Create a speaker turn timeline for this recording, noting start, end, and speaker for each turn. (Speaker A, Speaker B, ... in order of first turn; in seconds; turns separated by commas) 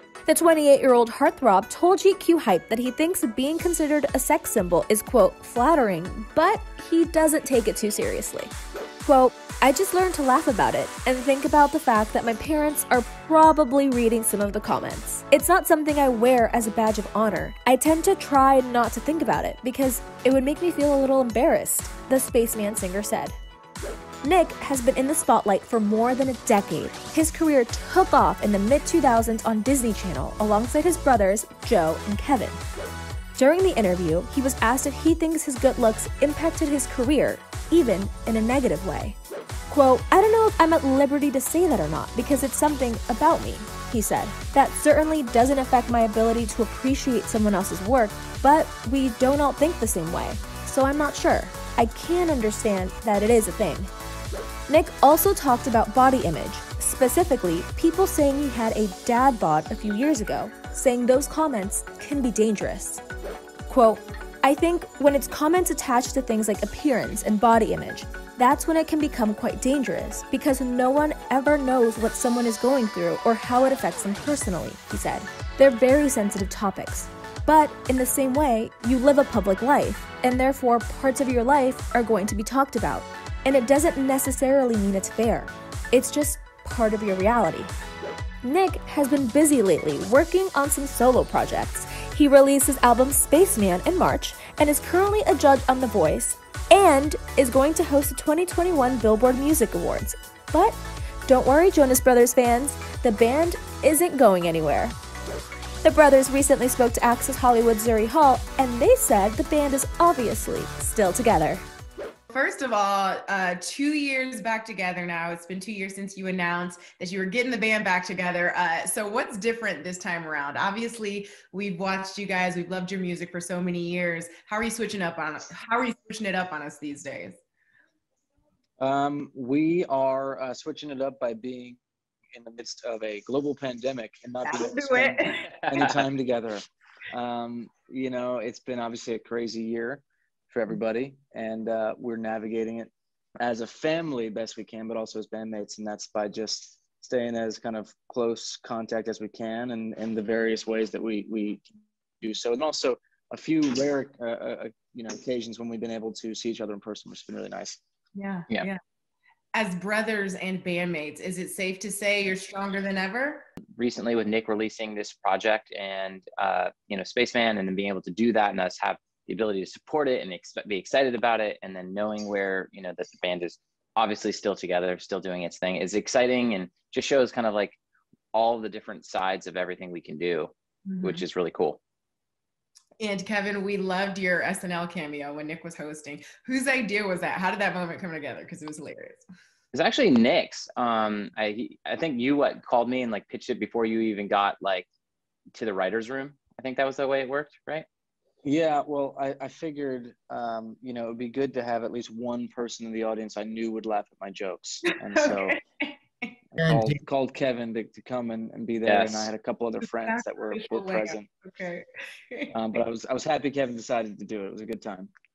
Speaker A: 0.2-8.5, Speaker A: 9.0-23.3, Speaker A: 24.2-32.6, Speaker A: 33.4-39.2, Speaker A: 39.7-53.9, Speaker A: 54.7-63.0, Speaker A: 63.7-87.7, Speaker A: 88.4-104.9, Speaker A: 105.8-111.6, Speaker B: 112.3-127.4, Speaker C: 128.8-131.8, Speaker C: 132.3-157.8, Speaker B: 134.4-135.5, Speaker D: 135.7-136.0, Speaker B: 158.1-158.8, Speaker B: 159.5-163.4, Speaker D: 163.8-177.8, Speaker D: 178.3-181.8, Speaker B: 180.8-181.2, Speaker B: 183.0-189.2, Speaker D: 189.7-194.9, Speaker D: 195.5-197.8, Speaker C: 198.4-205.6, Speaker B: 204.9-206.3, Speaker C: 206.6-211.3, Speaker D: 208.8-209.3, Speaker B: 209.9-212.8, Speaker C: 212.5-215.1